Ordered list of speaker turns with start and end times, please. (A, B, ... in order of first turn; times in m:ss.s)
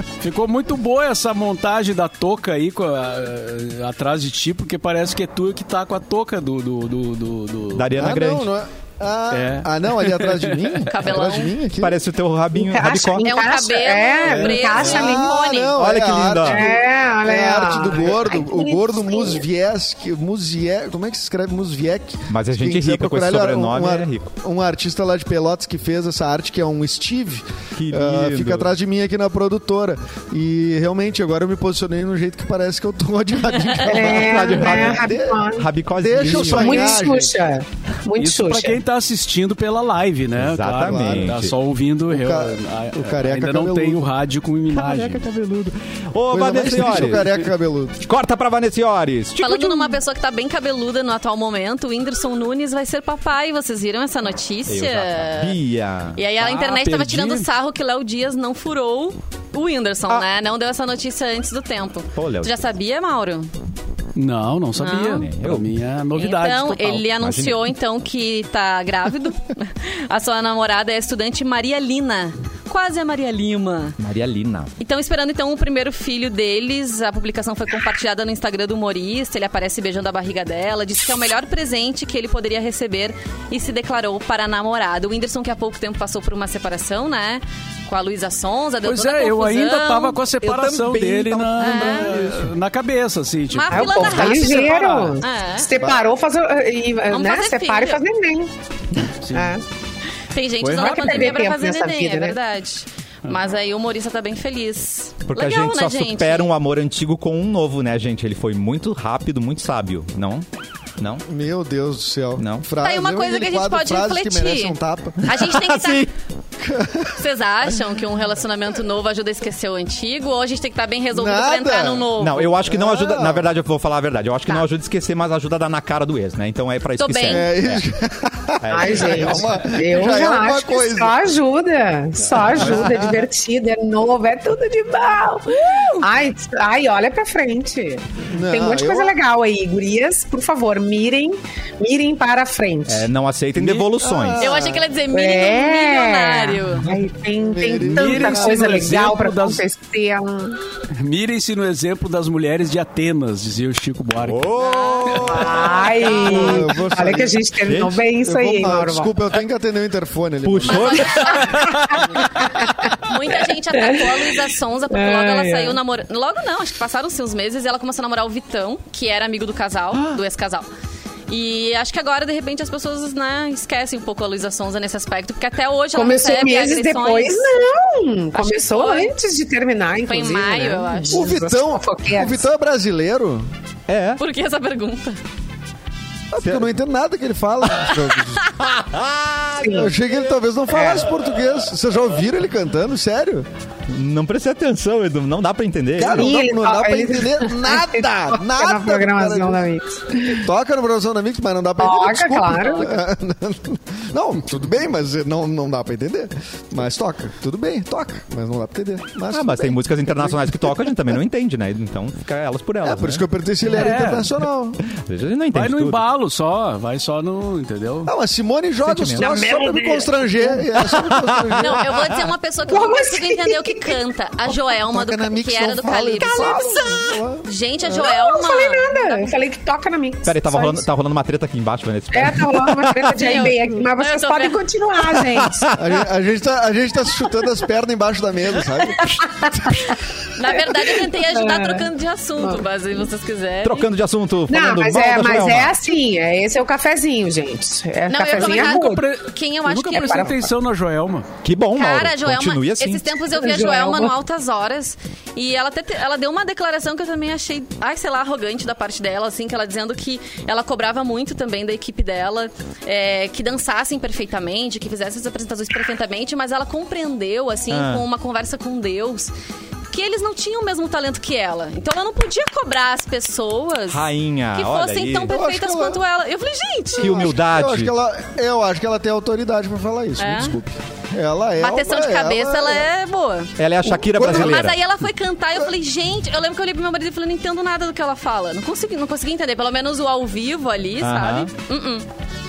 0:00.2-0:07.9 A
0:07.7-0:08.5 B
0:08.0-0:12.0 C
0:09.3-0:10.9 A
0:10.9-0:11.6 D
0:11.8-0:13.3 B
0:12.5-0:15.4 E
0:13.2-0:15.8 D
0:14.5-0:37.3 C
0:15.8-0:16.6 B
0:16.4-0:19.4 E
0:22.3-0:24.3 B
0:27.8-0:28.7 B
0:33.8-0:35.7 E
0:34.0-0:37.0 B
0:36.2-0:36.6 A
0:36.3-0:38.8 E
0:38.2-0:45.2 A
0:40.4-0:41.6 B
0:40.8-0:41.4 C
0:42.1-0:44.0 C
0:44.8-0:47.3 B
0:46.3-0:48.0 C
0:48.0-0:50.0 B
0:49.4-0:55.6 D
0:54.7-0:56.2 B
0:56.2-1:03.5 D
0:56.4-0:57.5 A
1:02.2-1:02.5 B
1:04.2-1:07.1 A
1:04.8-1:05.3 D
1:05.2-1:05.7 B
1:06.2-1:14.0 D
1:07.2-1:07.7 B
1:14.0-1:14.7 B
1:14.8-1:30.2 D
1:28.8-1:35.2 A
1:30.4-1:32.5 B
1:31.6-1:32.1 D
1:33.5-1:35.7 D
1:33.7-1:38.5 E
1:37.1-1:38.0 D
1:39.2-1:39.6 A
1:39.3-1:39.6 E
1:40.3-1:46.5 D
1:40.6-1:41.4 A
1:40.8-1:42.4 E
1:45.2-1:50.4 B
1:51.3-1:55.3 C
1:52.4-1:52.7 B
1:52.8-1:56.1 D
1:55.2-1:56.1 B
1:56.6-1:57.2 C
1:57.2-2:02.6 D
2:01.1-2:02.1 C
2:02.2-2:07.8 B
2:02.6-2:03.5 C
2:07.0-2:07.5 D
2:07.3-2:11.2 C
2:08.6-2:09.5 B
2:08.7-2:23.1 E
2:12.4-2:13.0 C
2:12.6-2:13.2 B
2:18.3-2:19.2 C
2:22.9-2:24.5 B
2:24.0-2:24.9 C
2:24.4-2:26.9 D
2:25.1-2:30.6 E
2:27.4-2:29.0 C
2:27.8-2:29.6 A
2:30.9-2:34.5 A
2:34.2-2:36.4 B
2:34.6-2:35.4 D
2:35.3-2:39.1 E
2:36.0-2:36.6 D
2:36.2-2:37.4 C
2:37.7-2:38.0 B
2:38.2-2:41.2 C
2:40.4-2:41.7 B
2:40.6-2:41.7 D
2:41.6-2:42.0 A
2:42.0-2:42.7 E
2:43.0-2:50.7 D
2:43.3-2:45.8 E
2:51.3-2:57.5 D
2:55.9-3:02.5 E
2:58.3-2:59.1 D
3:00.1-3:01.4 D
3:01.1-3:03.5 C
3:03.9-3:04.2 B
3:04.2-3:05.2 D
3:06.3-3:08.5 C
3:06.4-3:06.7 B
3:08.6-3:09.6 B
3:09.6-3:09.9 E
3:09.7-3:13.5 C
3:10.7-3:11.1 E
3:13.9-3:16.3 B
3:16.0-3:19.7 C
3:16.0-3:20.4 E
3:20.3-3:30.9 C
3:21.8-3:23.0 E
3:29.3-3:33.2 B
3:32.8-3:34.8 C
3:33.6-3:34.4 A
3:34.9-3:36.0 B
3:35.5-3:38.1 A
3:38.1-3:41.8 C
3:38.9-3:39.2 B
3:39.2-3:40.6 E
3:40.8-3:42.2 B
3:41.6-3:49.4 D
3:42.7-3:44.0 E
3:44.8-3:47.5 C
3:46.2-3:47.0 E
3:47.9-3:50.9 E
3:50.3-3:53.1 B
3:52.1-3:55.7 E
3:53.1-3:54.6 D
3:55.2-3:56.0 B
3:55.7-3:59.9 C
3:59.0-3:59.7 E
4:00.4-4:03.9 D
4:00.5-4:01.9 E
4:03.6-4:05.7 B
4:04.5-4:09.1 E
4:08.1-4:10.3 D
4:08.3-4:11.3 A
4:09.9-4:10.5 E
4:11.4-4:13.1 B
4:11.8-4:29.3 D
4:13.3-4:14.1 E
4:27.7-4:28.0 B
4:29.9-4:37.3 D
4:33.9-4:35.3 B
4:35.3-4:36.0 C
4:37.0-4:37.9 B
4:37.0-4:42.9 C
4:40.2-4:40.6 D
4:41.6-4:52.1 D
4:43.6-4:44.8 B
4:44.0-4:44.6 C
4:51.0-4:51.5 B